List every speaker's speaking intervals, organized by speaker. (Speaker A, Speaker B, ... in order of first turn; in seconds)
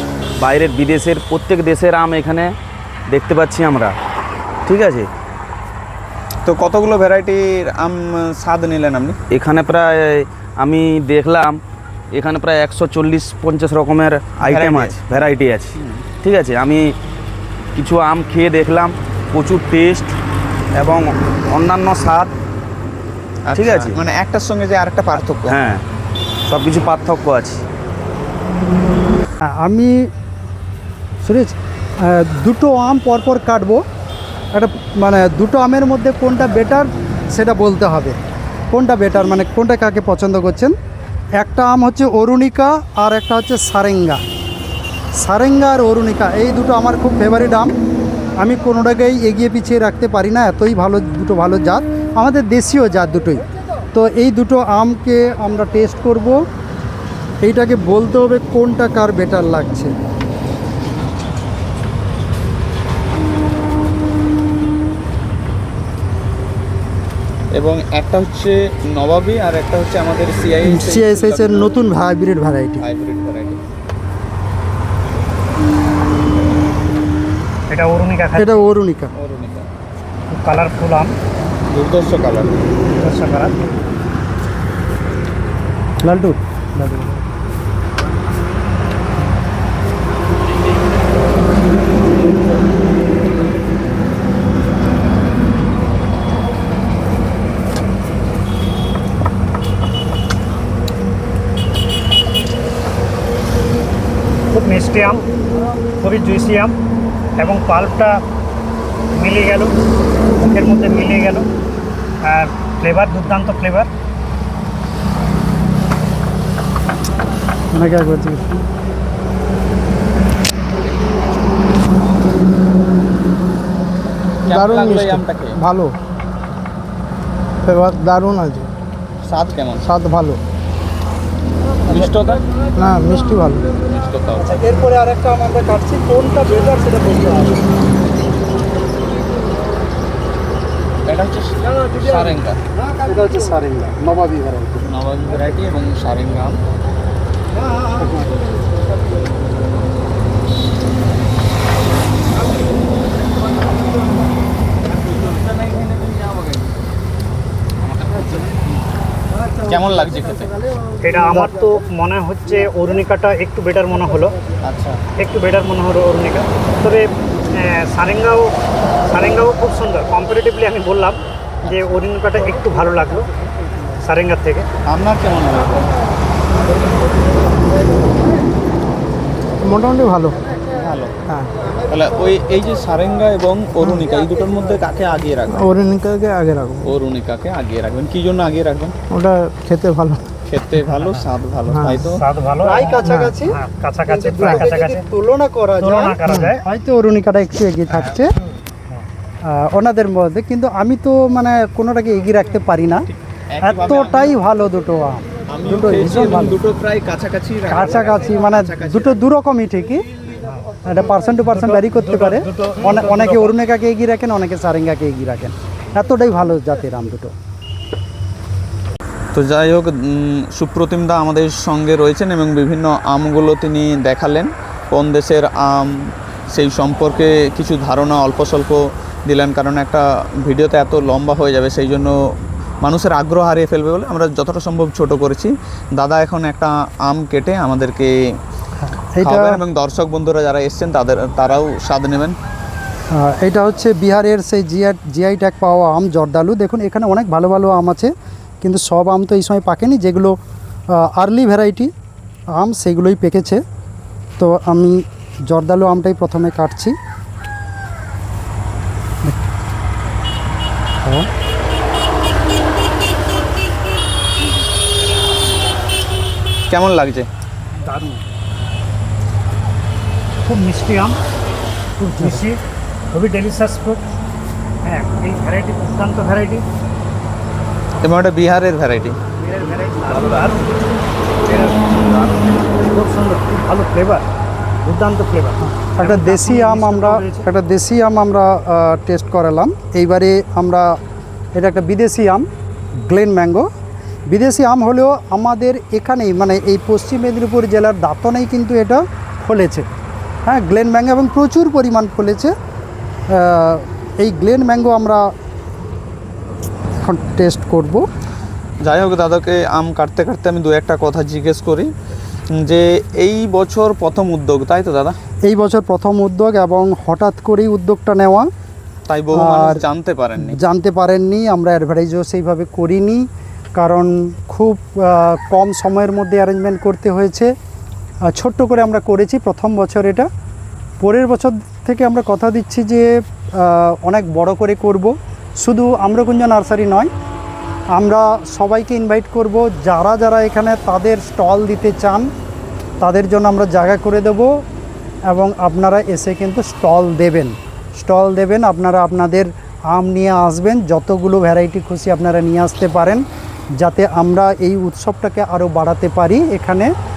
Speaker A: 0.4-2.5, 3.1-3.9, 4.7-5.1, 9.3-11.6, 12.1-16.9, 17.8-20.1, 20.8-22.3, 23.5-24.0, 25.4-25.8, 26.5-27.6
Speaker B: 6.5-9.2, 14.5-14.9, 23.5-25.6, 67.5-71.7, 72.8-73.6, 79.1-79.6, 81.7-82.5, 124.5-125.6, 129.2-129.8, 131.9-132.4, 133.9-134.6, 141.1-142.6, 144.8-146.5, 155.6-156.4, 157.9-158.2, 159.7-160.5, 164.6-165.0, 174.9-175.9, 180.8-181.1, 181.9-185.6, 186.8-188.9, 190.5-192.2, 203.5-204.3, 205.5-209.1, 219.3-225.9, 226.5-232.1, 232.8-238.1, 239.2-242.3, 266.7-267.3, 278.0-279.1, 308.8-311.9, 312.5-315.1, 319.1-320.6
Speaker C: 29.5-30.1, 31.2-33.8, 34.5-38.2, 38.7-40.8, 41.4-44.2, 45.1-47.7, 48.4-56.4, 57.4-59.9, 70.6-72.8, 78.4-79.1, 86.0-87.1, 117.7-118.4, 134.4-137.7, 142.8-144.8, 192.6-198.3, 199.4-203.1, 203.6-206.6, 207.7-210.1, 210.8-217.3, 238.8-239.6, 243.1-250.3, 250.9-251.9, 252.5-253.6, 254.4-256.9, 286.0-290.9, 291.6-293.7, 294.3-299.9, 300.4-302.5, 303.3-305.3, 307.0-308.0, 315.4-318.5, 319.3-319.8, 320.4-323.2, 323.8-327.5, 328.3-330.3, 331.0-337.1, 337.9-342.3, 343.0-344.5, 345.3-353.2, 353.8-356.9
Speaker D: 77.7-78.6, 80.3-81.1, 83.0-83.6, 104.5-105.2, 106.0-106.7, 107.4-108.2, 109.2-109.7, 110.4-111.5, 112.2-113.9, 161.0-164.3, 165.2-168.5, 169.1-173.3, 174.0-174.7, 191.0-191.2, 192.1-195.0, 195.8-196.6, 211.5-213.5, 267.8-268.2, 270.4-271.2, 272.0-272.6, 273.1-274.0, 274.8-276.6, 279.4-280.7, 281.5-282.0, 282.8-284.2, 284.8-287.4
Speaker E: 124.5-125.9, 127.6-128.7, 129.8-130.4, 132.8-133.6, 179.6-180.4, 183.8-184.1, 185.5-186.9, 189.1-190.2, 191.7-192.1